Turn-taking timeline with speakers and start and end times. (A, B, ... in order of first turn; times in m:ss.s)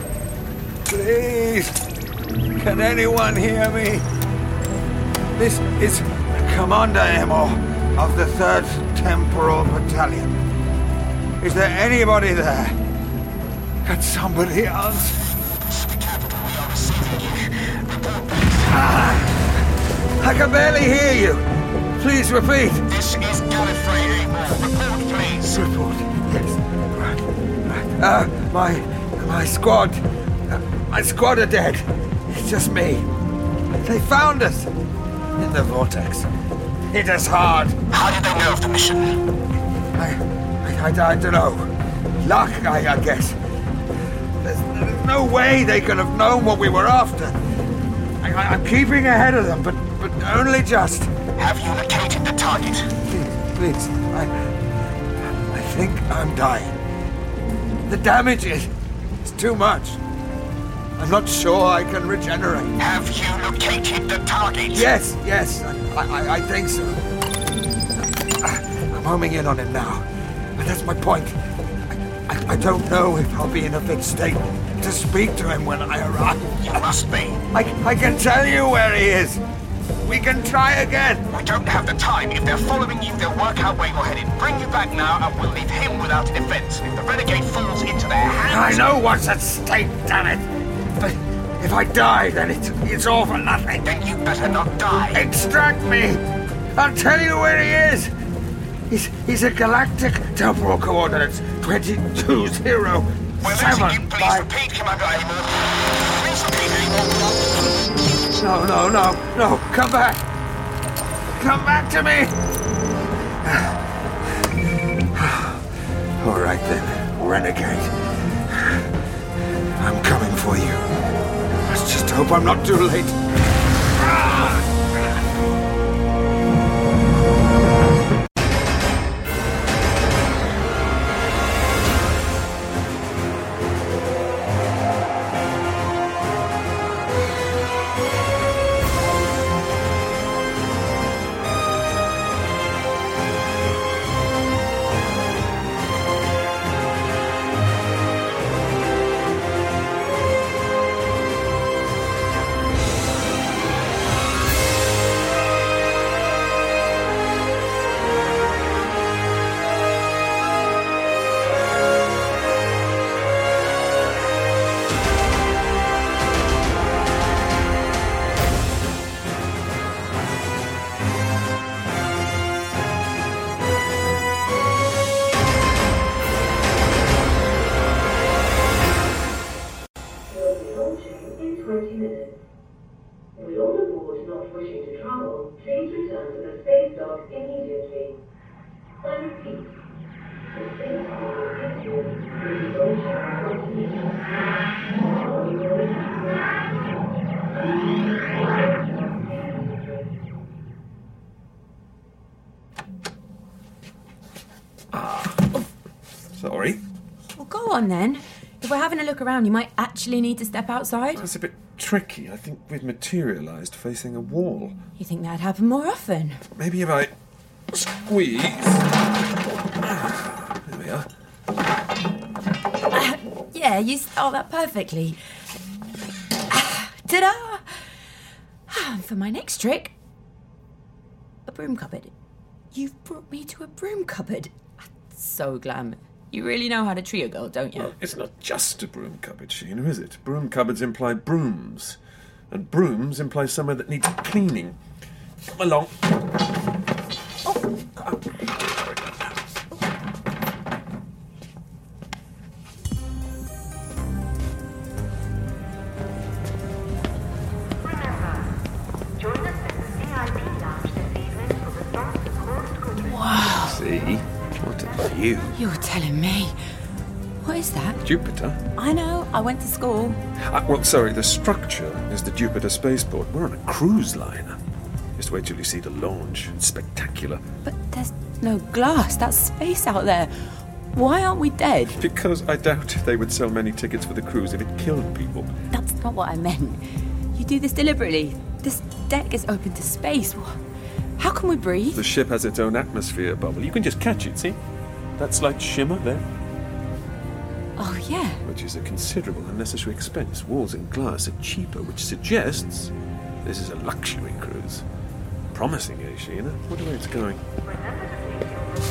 0:00.8-0:01.8 A
0:02.6-0:04.0 A
0:05.4-0:10.4 A
0:11.4-0:12.8 A
0:13.8-0:15.2 A
0:15.6-0:18.5 B
0:18.6-0:19.5 A
0:20.2-0:22.8 A
0:22.9-0:25.5 B
0:25.4-0:33.1 A
0:33.8-0:34.7 A
0:35.4-0:36.3 A
0:36.9-0:37.8 A
0:37.9-0:39.1 B
0:40.0-0:43.4 A
0:44.4-0:47.4 A
0:48.2-0:51.1 A
0:51.4-0:52.9 B
0:53.0-0:54.3 A
0:55.5-0:56.8 A
0:57.8-0:58.7 A
0:59.2-1:00.0 A
1:01.0-1:02.8 A
1:02.8-1:04.9 B
1:04.7-1:07.0 A
1:08.2-1:11.4 A
1:11.9-1:16.9 A
1:16.6-1:17.5 B
1:17.5-1:19.4 A
1:20.0-1:21.3 A
1:21.3-1:28.9 B
1:28.4-1:30.5 A
1:31.0-1:33.9 A
1:33.8-1:35.2 B
1:35.1-1:36.2 A
1:36.8-1:38.1 A
1:38.9-1:44.5 A
1:43.4-1:47.6 B
1:48.3-1:50.2 A
1:51.4-1:52.4 A
1:53.4-1:53.8 A
1:55.1-1:55.6 A
1:56.2-1:58.0 A
1:58.5-1:58.8 A
1:59.8-2:00.8 A
2:01.7-2:03.2 A
2:04.0-2:04.7 A
3:00.3-3:02.3 C
3:03.4-3:08.1 C
3:09.0-3:09.7 C
3:10.5-3:14.1 C
3:15.0-3:16.4 C
3:18.9-3:19.8 C
3:24.9-3:25.6 D
3:26.3-3:26.8 D
3:27.4-3:31.2 E
3:31.2-3:34.8 D
3:35.0-3:36.4 E
3:36.6-3:37.1 D
3:37.7-3:38.8 D
3:39.8-3:41.1 D
3:42.9-3:45.2 E
3:46.5-3:47.7 E
3:48.7-3:49.9 E
3:51.5-3:52.1 E
3:52.7-3:54.5 E
3:55.1-3:57.9 E
3:57.8-4:02.0 D
4:02.5-4:04.8 D
4:05.5-4:06.1 D
4:08.0-4:09.6 D
4:17.8-4:18.5 F
4:19.2-4:23.0 F
4:23.0-4:23.8 E
4:23.5-4:25.5 D
4:25.6-4:26.5 E
4:27.4-4:28.0 E
4:28.0-4:28.6 D
4:28.8-4:30.2 E
4:30.4-4:34.6 D
4:35.2-4:37.4 D
4:37.6-4:40.3 E
4:40.9-4:42.0 E
4:42.0-4:45.5 D
4:45.7-4:46.8 E
4:47.3-4:50.6 E
4:51.2-4:52.0 E
4:51.9-4:54.6 D
4:55.2-4:56.2 D
4:57.8-4:58.4 E
4:58.4-5:02.9 D
5:03.4-5:04.8 D
5:05.5-5:07.4 D
5:07.7-5:08.4 F